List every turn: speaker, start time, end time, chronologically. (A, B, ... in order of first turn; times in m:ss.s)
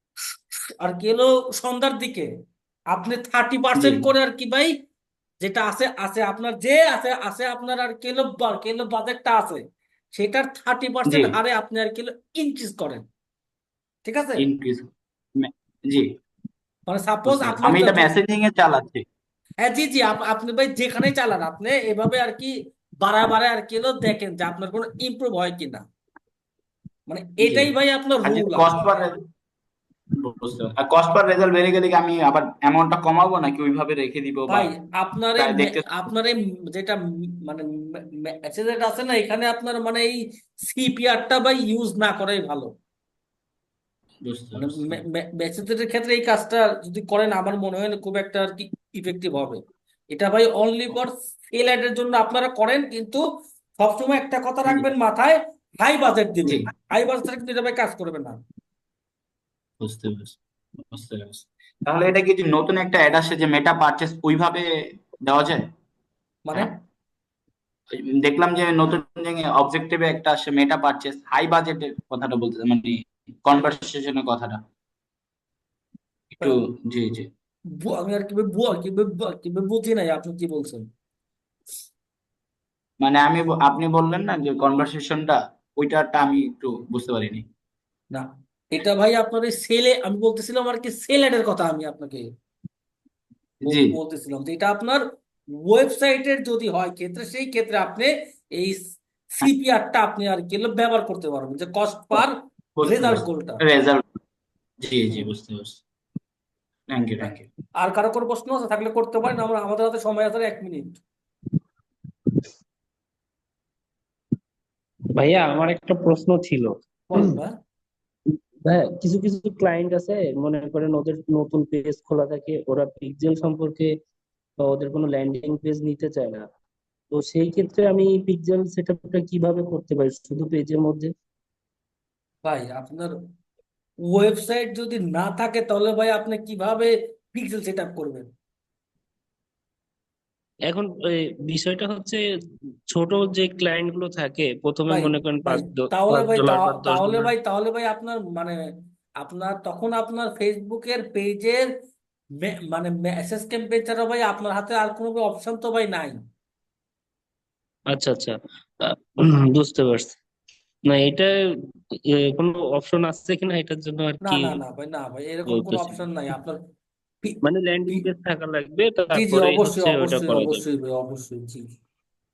0:00.8-0:02.3 A
0:02.9-0:04.7 A
0:03.7-0:04.1 B
0:05.4-0:09.6 A
0:10.1-0:13.0 A
0:11.1-0:11.4 B
0:14.0-0:14.4 A
0:14.4-0:16.1 B
0:16.9-0:18.1 A
0:17.2-0:19.0 B
0:19.6-0:25.8 A
0:27.1-0:28.7 A
0:27.4-0:27.7 B
0:28.2-0:29.2 B
0:30.2-0:34.7 B
0:34.5-0:42.7 A
0:35.4-0:35.9 B
0:44.2-0:45.0 B
0:44.6-0:49.6 A
0:50.1-0:53.2 A
0:53.8-0:58.4 A
0:59.8-1:00.4 B
1:00.9-1:04.6 B
1:05.2-1:05.6 B
1:06.4-1:06.7 A
1:08.0-1:14.6 B
1:16.4-1:17.3 B
1:17.8-1:20.8 A
1:23.0-1:27.4 B
1:28.1-1:32.2 A
1:33.6-1:34.0 B
1:33.6-1:35.0 A
1:35.6-1:43.6 A
1:42.8-1:44.0 B
1:44.8-1:45.8 B
1:46.9-1:47.5 B
1:47.2-1:51.0 A
1:55.1-1:57.4 C
1:57.1-1:57.5 A
1:58.6-2:04.0 C
2:04.6-2:06.4 C
2:07.1-2:11.1 C
2:12.4-2:13.1 A
2:14.1-2:18.3 A
2:20.7-2:22.2 C
2:22.9-2:27.3 C
2:24.9-2:28.6 A
2:29.2-2:31.7 A
2:32.4-2:36.2 A
2:37.9-2:40.2 C
2:40.9-2:41.3 C
2:42.1-2:44.6 C
2:44.2-2:46.6 A
2:45.5-2:46.0 C
2:47.2-2:48.0 A
2:47.4-2:50.6 C
2:49.1-2:51.6 A